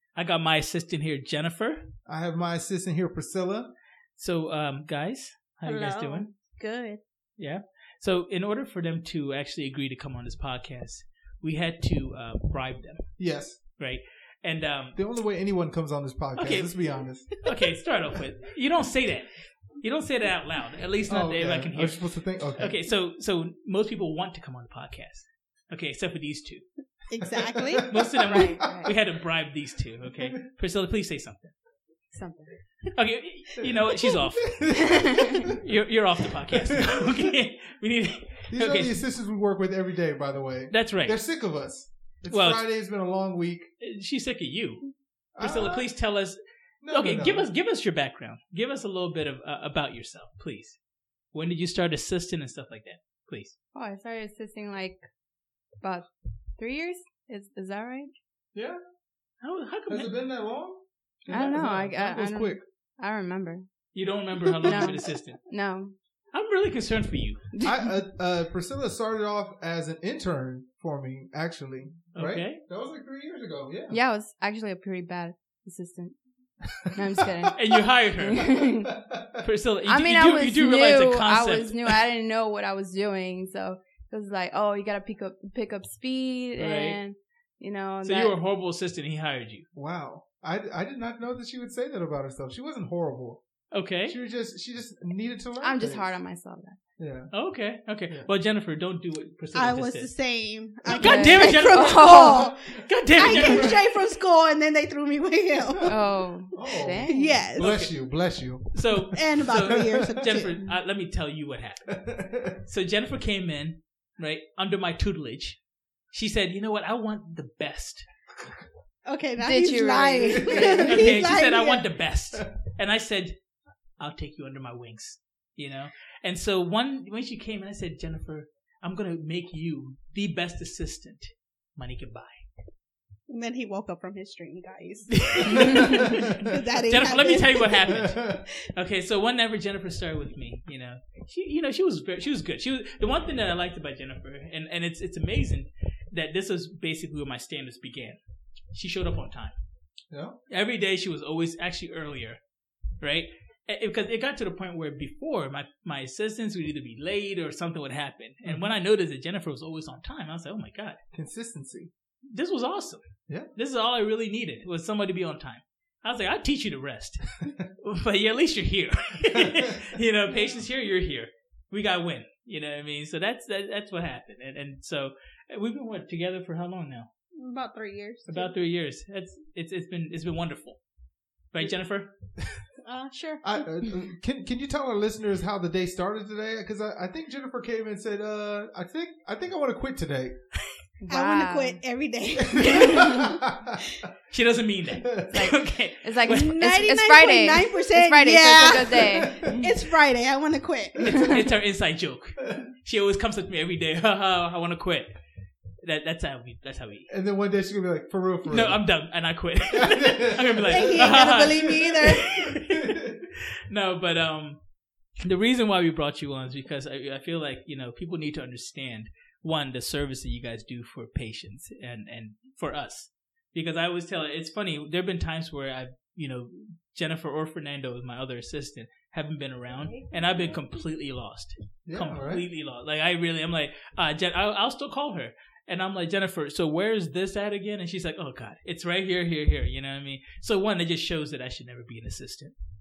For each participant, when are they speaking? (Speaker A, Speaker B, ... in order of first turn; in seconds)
Speaker A: 0.1-1.9, 4.2-6.3, 7.4-13.1, 13.8-15.0, 16.4-16.7, 17.4-19.3, 19.8-22.0, 22.6-26.6, 27.9-31.5, 32.9-39.0, 40.7-41.2, 42.3-42.6, 43.8-44.8, 45.4-46.4, 46.9-50.8, 51.3-53.5, 59.4-60.1, 63.9-65.4, 66.3-67.5, 72.1-72.6, 77.5-78.7, 79.4-82.0, 86.6-87.0, 88.0-89.7, 93.7-94.2, 97.3-100.1, 100.8-103.9, 107.5-107.9, 108.7-112.0, 112.6-115.6, 116.1-118.1, 120.8-123.3, 124.0-132.4, 135.1-148.2, 148.7-149.5, 150.5-152.4, 153.0-161.0, 162.3-163.0, 163.6-177.1, 178.3-180.8, 181.5-182.1, 194.3-196.5, 201.2-205.1, 205.8-207.1, 208.5-214.6, 215.2-242.5
Speaker B: 2.0-3.7, 13.2-13.6, 14.9-17.3, 21.1-22.8, 27.2-28.9, 34.4-35.6, 36.5-37.3, 38.5-43.7, 45.3-45.9, 46.8-47.5, 59.9-62.6, 64.4-64.9, 67.6-74.0, 76.8-77.6, 78.8-79.4, 89.7-93.4, 94.1-96.1, 97.0-97.3, 103.1-103.8, 106.5-110.4, 111.9-112.6, 120.3-120.9, 135.4-136.5, 137.9-138.4, 150.1-150.4, 161.1-161.9, 169.3-169.7, 183.4-190.3, 192.4-194.0, 195.0-195.4, 199.0-199.6, 201.0-201.4, 207.1-208.8, 209.7-213.2, 231.8-232.4
Speaker C: 5.7-7.0, 27.1-27.9, 99.5-105.9, 107.1-107.7, 109.1-110.6, 119.0-121.9, 133.3-138.0, 177.3-178.5, 182.8-183.6, 191.1-193.4, 196.3-201.3, 210.6-212.3, 229.8-230.7
Speaker D: 28.2-28.9, 32.1-32.5, 35.0-35.4, 53.7-55.0, 55.8-58.1, 61.3-63.6, 64.6-65.9, 67.5-67.9, 73.9-76.2, 76.9-77.6, 78.2-78.9, 79.8-88.3, 95.6-96.8, 101.0-102.5, 105.8-107.5, 119.4-120.9, 191.0-191.8, 192.9-193.2, 195.3-199.7